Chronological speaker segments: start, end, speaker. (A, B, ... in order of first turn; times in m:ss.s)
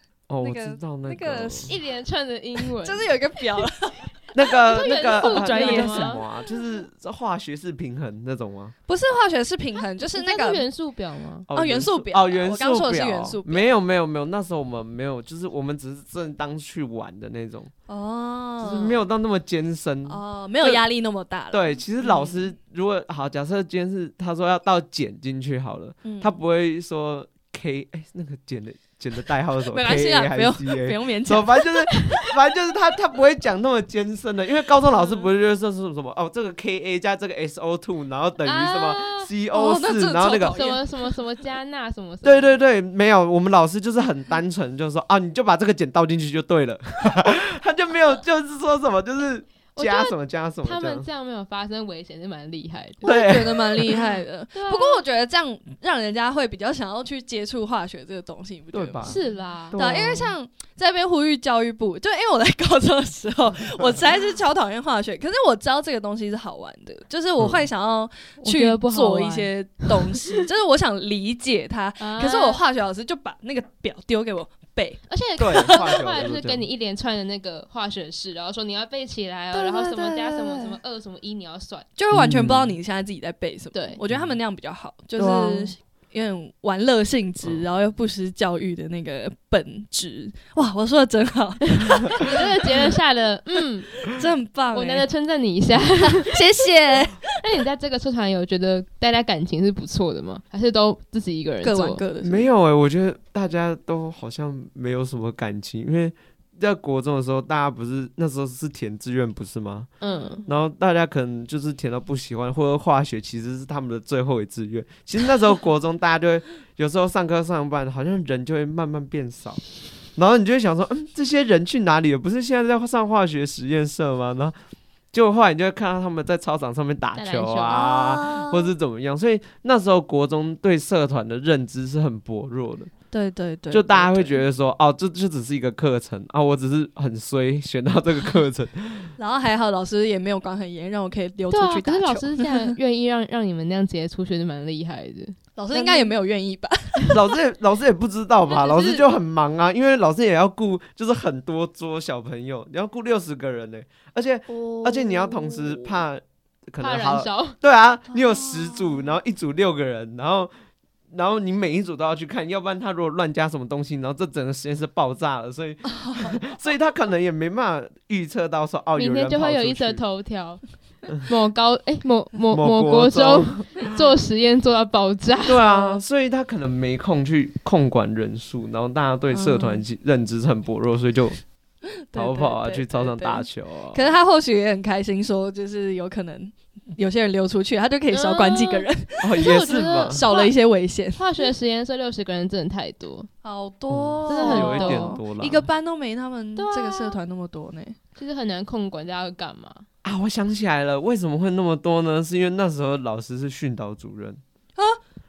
0:00.3-0:01.7 A
0:00.4-0:01.8 B
0:01.6-0:03.1 C
0:02.6-0:04.1 B
0:04.3-0:08.7 A
0:04.7-0:06.2 C
0:04.8-0:06.3 B
0:08.9-0:10.7 B
0:10.0-0:11.5 C
0:11.5-0:17.7 A
0:11.5-0:13.7 B
0:17.9-0:19.0 B
0:18.6-0:20.8 A
0:20.1-0:22.5 B
0:21.5-0:40.6 A
0:26.0-0:26.4 B
0:29.7-0:31.9 B
0:38.4-0:39.3 C
0:39.5-0:41.0 B
0:40.2-0:42.6 C
0:42.2-0:51.1 A
0:49.7-0:53.1 C
0:53.0-0:59.2 B
0:53.0-0:54.0 A
0:54.5-0:55.0 C
0:58.7-1:00.4 A
0:59.0-0:59.8 C
0:59.7-1:15.0 B
1:07.4-1:07.7 A
1:08.4-1:10.1 C
1:12.0-1:12.6 C
1:15.1-1:21.9 C
1:15.4-1:16.6 A
1:15.5-1:15.8 B
1:19.5-1:20.8 B
1:22.0-1:32.3 B
1:22.1-1:22.8 A
1:23.7-1:24.0 C
1:25.2-1:25.8 A
1:32.2-1:33.9 C
1:34.1-1:35.1 B
1:34.7-1:36.4 C
1:36.0-1:37.2 B
1:37.4-1:42.0 C
1:41.6-1:42.5 B
1:42.2-1:49.9 A
1:50.0-1:50.4 C
1:50.1-1:50.4 B
1:50.5-1:59.6 A
2:00.2-2:04.6 A
2:05.1-2:12.9 A
2:07.2-2:07.8 C
2:07.7-2:08.7 B
2:13.1-2:14.4 B
2:13.7-2:19.1 A
2:19.2-2:22.8 B
2:21.5-2:26.2 C
2:25.6-2:27.2 B
2:27.1-2:40.5 A
2:28.5-2:29.0 C
2:34.5-2:36.0 B
2:36.8-2:37.6 C
2:38.1-2:39.1 B
2:41.1-2:50.0 A
2:45.9-2:46.4 B
2:49.0-2:55.6 C
2:52.5-2:53.9 A
2:55.5-3:01.4 A
2:55.7-2:56.0 B
2:59.3-2:59.9 B
3:02.1-3:11.4 B
3:02.2-3:04.1 A
3:08.1-3:10.6 C
3:09.2-3:10.2 A
3:11.2-3:13.3 C
3:13.4-3:18.0 B
3:13.9-3:15.7 A
3:14.3-3:15.2 C
3:16.6-3:17.2 C
3:18.2-3:19.9 C
3:20.0-3:24.4 A